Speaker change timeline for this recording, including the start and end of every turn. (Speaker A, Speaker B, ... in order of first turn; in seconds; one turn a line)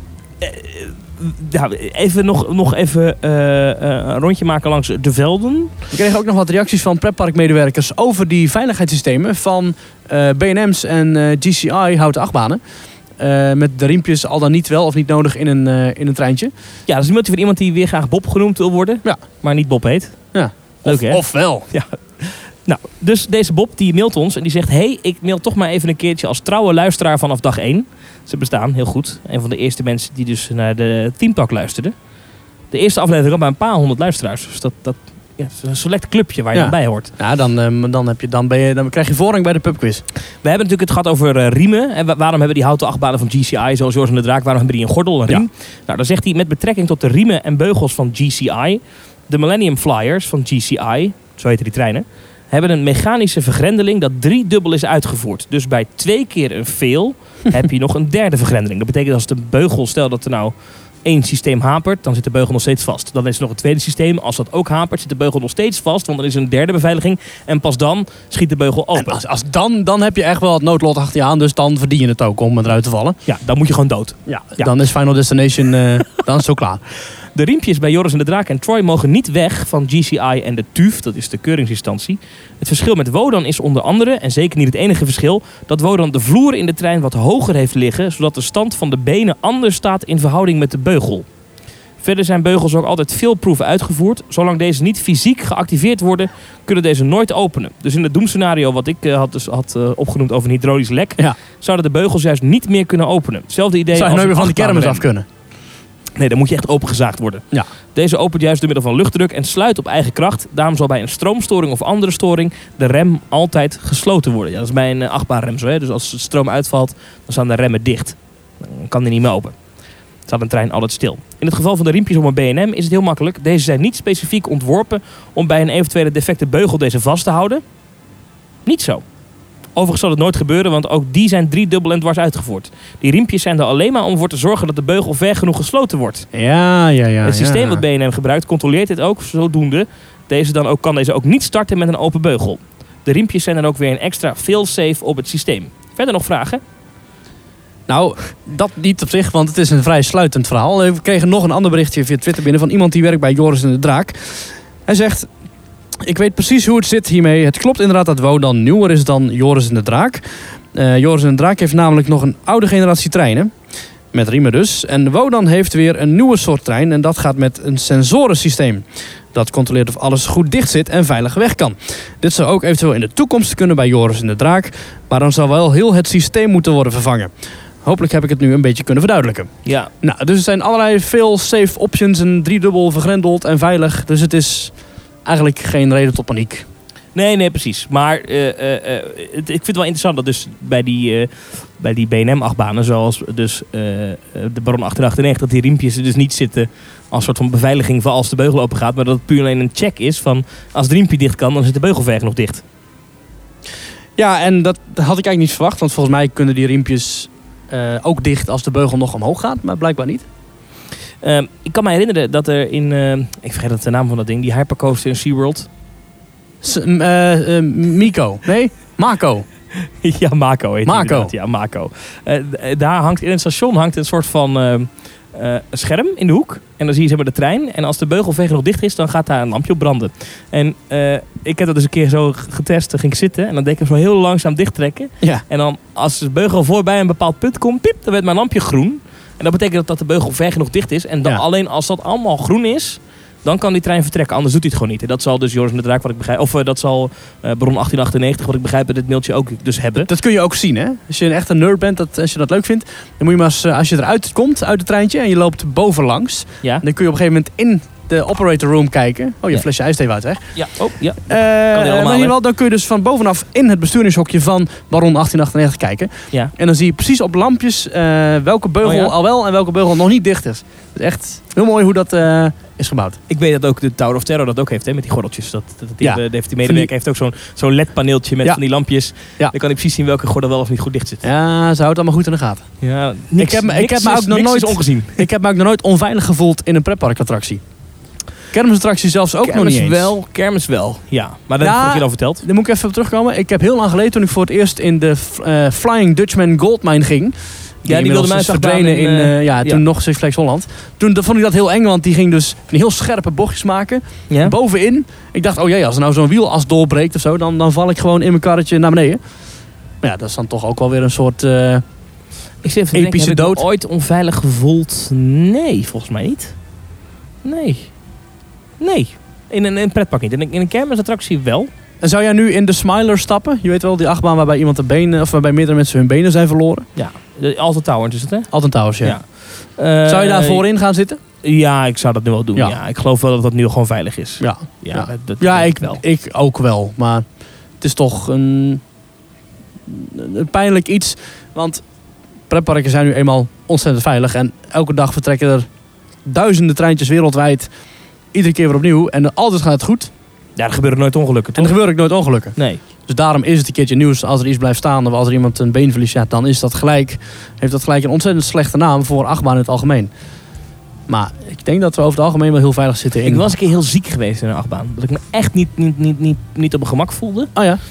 Speaker A: 0.4-5.7
Speaker B: 5.9-12.6
Speaker B: 13.2-16.5
Speaker A: 16.9-20.1
Speaker B: 20.3-21.7
Speaker A: 20.8-31.9
Speaker A: 32.7-37.1
Speaker B: 36.5-40.0
Speaker A: 40.4-60.5
Speaker A: 61.0-69.2
Speaker B: 69.0-73.2
Speaker A: 73.3-74.7
Speaker B: 74.3-76.8
Speaker A: 77.3-91.2
Speaker A: 92.0-105.0
Speaker B: 103.9-105.2
Speaker A: 106.2-119.5
Speaker A: 120.3-127.6
Speaker A: 128.7-129.0
Speaker A: 129.7-136.3
Speaker B: 136.3-137.8
Speaker A: 137.2-146.6
Speaker B: 147.9-155.3
Speaker B: 156.0-163.5
Speaker B: 164.1-177.3
Speaker B: 177.8-179.5
Speaker A: 179.6-179.9
Speaker B: 180.0-184.7
Speaker B: 185.2-186.7
Speaker A: 187.1-202.6
Speaker B: 204.2-210.2
Speaker A: 211.2-215.7
Speaker B: 216.6-219.4
Speaker A: 219.8-250.1
Speaker B: 220.8-221.3
Speaker B: 250.1-260.4
Speaker A: 260.6-262.3
Speaker B: 261.3-273.2
Speaker A: 268.8-269.1
Speaker A: 273.3-281.2
Speaker B: 276.0-276.9
Speaker B: 281.2-282.6
Speaker A: 282.8-285.2
Speaker B: 283.4-287.6
Speaker B: 288.5-290.1
Speaker A: 289.4-292.4
Speaker B: 291.6-309.2
Speaker A: 297.9-299.8
Speaker A: 304.3-304.5
Speaker B: 310.0-311.8
Speaker A: 312.6-316.6
Speaker B: 312.9-313.6
Speaker A: 317.4-317.9
Speaker A: 318.8-321.7
Speaker B: 322.0-326.9
Speaker A: 326.9-328.5
Speaker B: 328.5-329.2
Speaker A: 329.0-330.6
Speaker B: 330.1-331.2
Speaker A: 331.4-336.0
Speaker B: 334.4-337.2
Speaker B: 337.8-338.8
Speaker B: 339.9-341.8
Speaker B: 342.5-345.6
Speaker B: 346.2-347.7
Speaker B: 348.3-350.1
Speaker A: 350.6-351.8
Speaker B: 351.6-360.1
Speaker B: 361.1-363.5
Speaker A: 363.2-367.5
Speaker B: 367.6-367.8